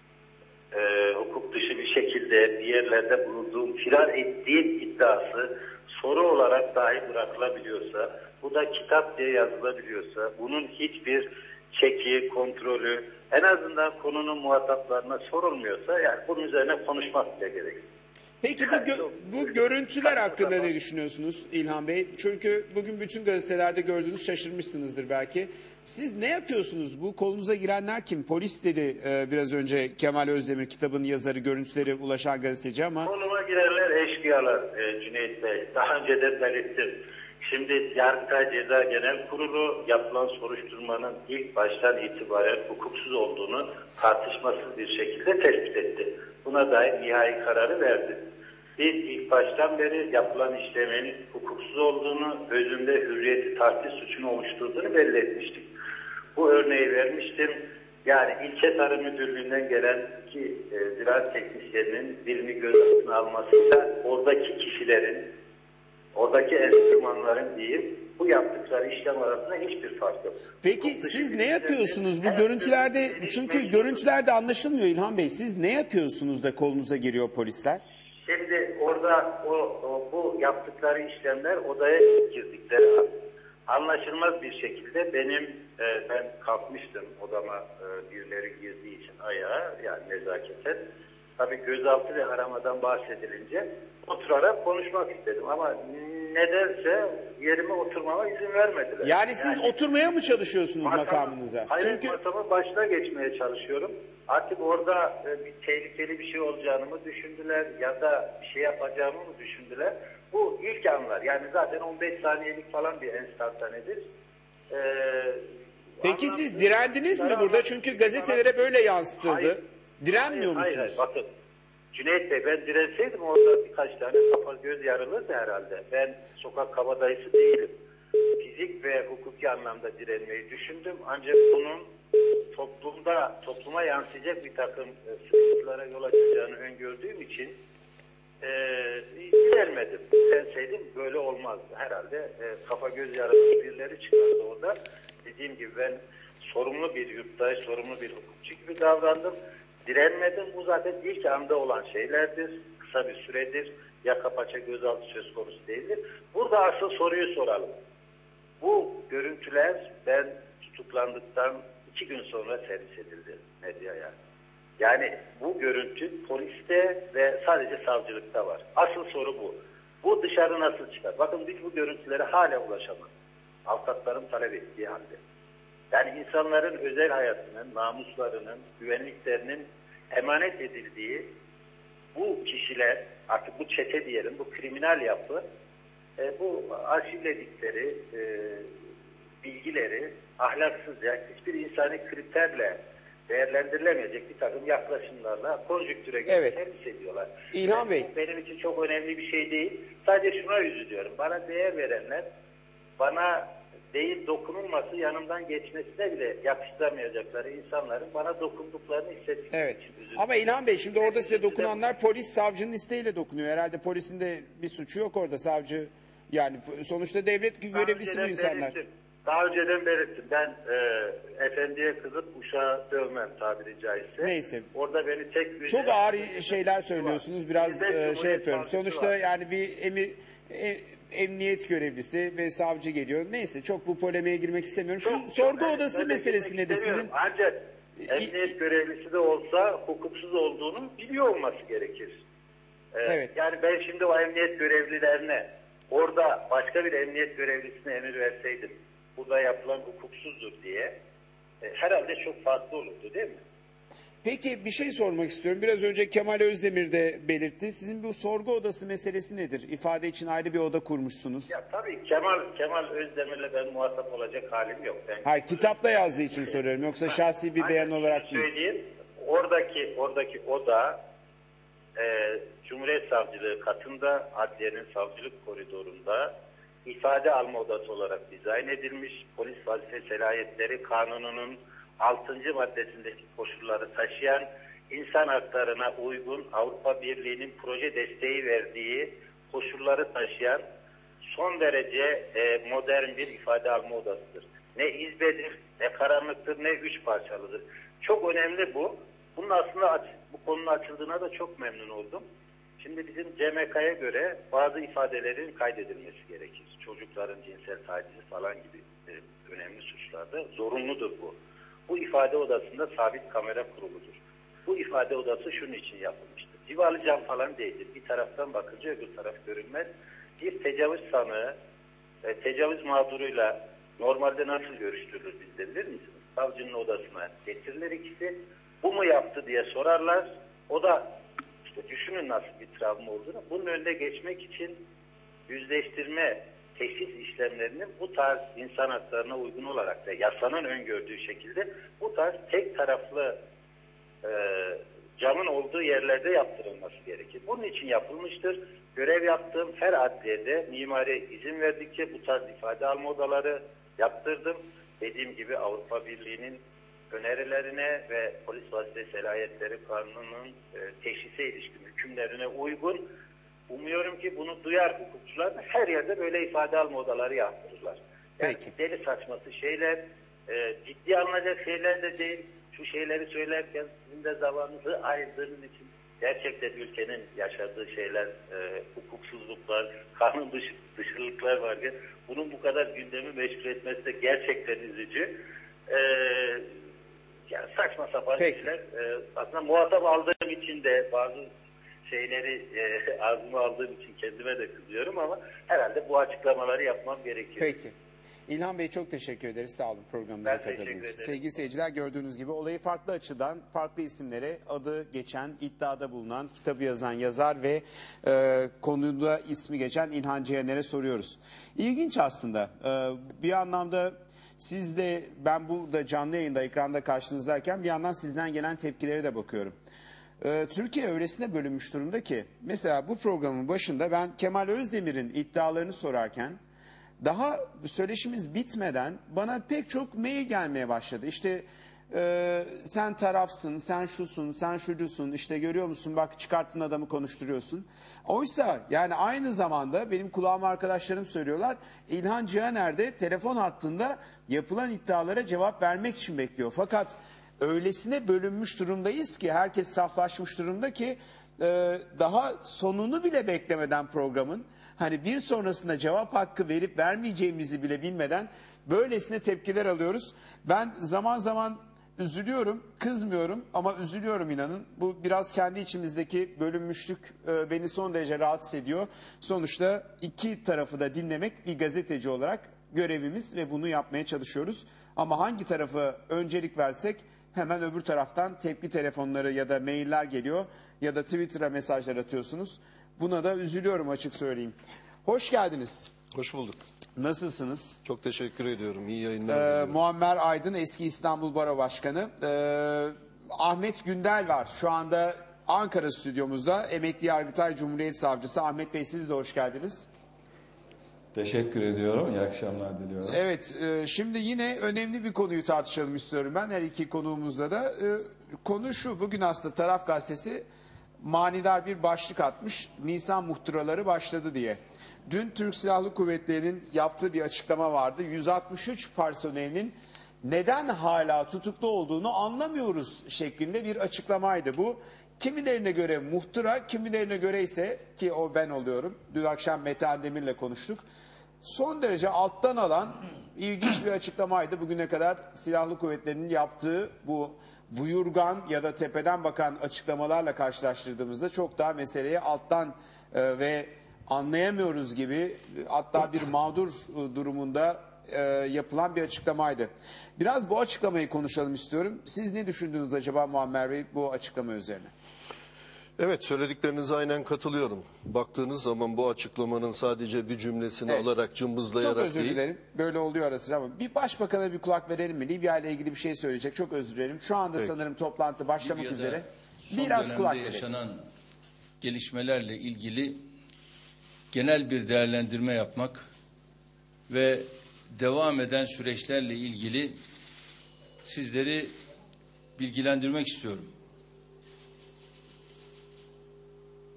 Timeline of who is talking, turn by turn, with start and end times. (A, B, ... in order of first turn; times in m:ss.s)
0:00.7-0:17.8 A
0:18.4-0:33.1 B
0:18.6-0:20.7 A
0:33.0-0:48.2 A
0:48.8-0:55.7 A
0:56.3-1:05.3 A
1:06.1-1:14.0 A
1:10.6-1:17.8 B
1:18.2-1:23.1 A
1:23.7-1:30.8 A
1:31.4-1:39.7 A
1:39.0-1:42.2 B
1:40.8-1:54.0 A
1:54.7-1:55.4 A
1:56.0-1:58.5 A
1:56.0-2:01.0 B
1:59.2-1:59.5 A
2:00.1-2:01.2 A
2:01.9-2:07.7 A
2:08.4-2:11.9 A
2:12.5-2:17.6 A
2:18.4-2:29.3 A
2:29.8-2:37.7 A
2:38.6-2:44.1 A
2:44.8-2:53.1 A
2:53.7-2:55.2 A
2:55.9-3:01.3 A
3:02.1-3:05.4 A
3:06.2-3:08.7 A
3:09.4-3:12.8 A
3:13.3-3:22.2 A
3:16.3-3:16.6 B
3:17.5-3:18.1 B
3:23.0-3:31.8 A
3:29.5-3:38.7 B
3:37.7-3:49.1 A
3:44.2-3:44.7 B
3:45.6-3:57.1 B
3:55.0-3:57.6 A
3:58.0-3:58.4 B
3:58.1-4:02.2 A
4:02.9-4:10.9 A
4:03.0-4:03.3 B
4:11.6-4:13.4 A
4:14.2-4:21.6 B
4:21.5-4:31.0 A
4:25.2-4:28.5 B
4:32.0-4:36.3 A
4:36.8-4:50.6 A
4:51.3-5:02.2 A
5:02.8-5:11.4 A
5:11.9-5:19.9 A
5:20.4-5:21.5 A
5:22.2-5:31.1 A
5:31.7-5:34.8 A
5:35.5-5:43.4 A
5:44.2-6:03.0 A
6:03.7-6:25.3 A
6:08.4-6:08.7 B
6:25.9-6:26.7 A
6:27.5-6:31.4 A
6:28.4-6:28.7 B
6:32.0-6:37.7 A
6:37.6-6:37.9 B
6:38.5-6:59.8 B
6:40.4-6:41.4 A
7:00.4-7:06.6 B
7:07.2-8:06.1 B
8:06.3-8:06.8 C
8:07.2-8:08.0 B
8:08.0-8:09.9 C
8:09.5-8:20.1 B
8:21.3-8:23.4 D
8:23.2-8:30.6 B
8:31.2-8:51.0 B
8:51.6-9:15.1 B
9:16.2-9:22.6 C
9:22.0-9:30.9 B
9:28.8-9:31.2 E
9:32.0-9:33.4 E
9:34.5-9:36.3 E
9:37.3-9:40.2 E
9:41.2-9:41.9 E
9:42.8-9:43.9 E